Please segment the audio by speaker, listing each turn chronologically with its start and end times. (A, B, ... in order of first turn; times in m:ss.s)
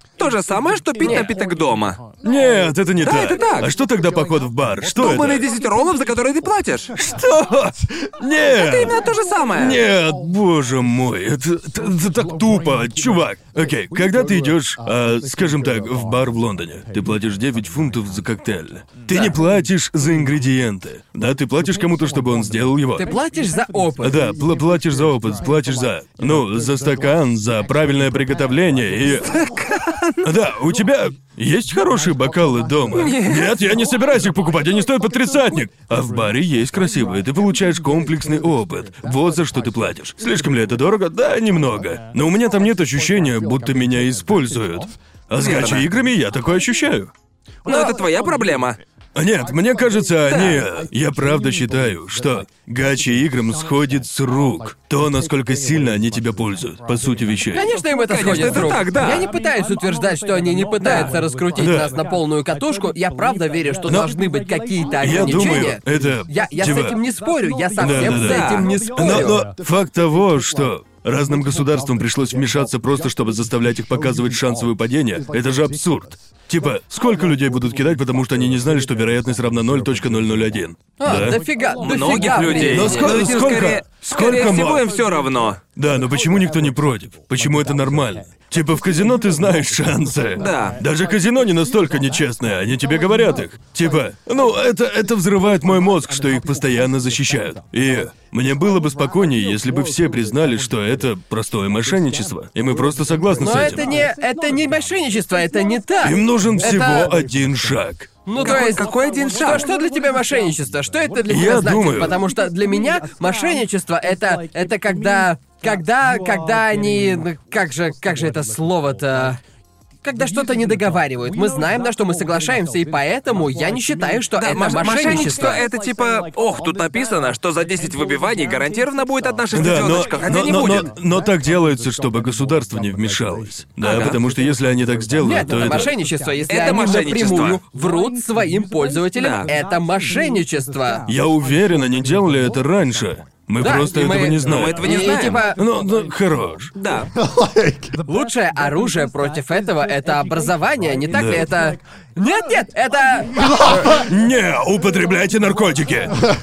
0:00.2-0:02.0 A
0:01.0-0:01.3 B
0:02.2-0:05.4 C
0:03.0-0:03.7 A
0:04.9-0:06.9 A
0:07.0-0:09.0 C
0:08.4-0:09.8 A
0:09.6-0:23.1 C
0:23.0-0:24.3 B
0:24.0-0:29.3 C
0:29.2-0:30.3 A
0:30.2-0:47.1 C
0:32.9-0:33.6 A
0:45.4-0:45.9 A
0:47.6-0:48.8 A
0:47.7-0:47.9 B
0:49.1-0:57.6 C
0:50.3-0:50.6 A
0:57.5-1:09.4 B
0:57.9-0:59.3 A
1:00.8-1:01.2 A
1:01.5-1:01.9 C
1:03.8-1:04.1 C
1:05.0-1:07.0 C
1:07.8-1:21.4 C
1:08.1-1:08.7 A
1:21.0-1:23.2 B
1:21.8-1:25.6 A
1:22.6-1:24.9 C
1:25.8-1:43.9 C
1:30.4-1:30.8 A
1:43.4-1:47.1 B
1:46.0-1:48.1 C
1:48.2-1:59.4 B
1:48.4-1:49.7 A
1:51.3-1:52.2 C
2:00.0-2:05.6 B
2:04.4-2:10.9 A
2:09.5-2:15.9 C
2:13.8-2:14.2 A
2:15.2-2:21.0 B
2:16.5-2:17.6 A
2:19.2-2:19.5 A
2:21.1-2:24.8 C
2:23.6-2:25.6 B
2:24.4-2:25.4 A
2:25.5-2:26.7 C
2:26.8-2:27.1 A
2:28.1-2:34.0 B
2:31.1-2:31.5 C
2:33.9-2:36.1 C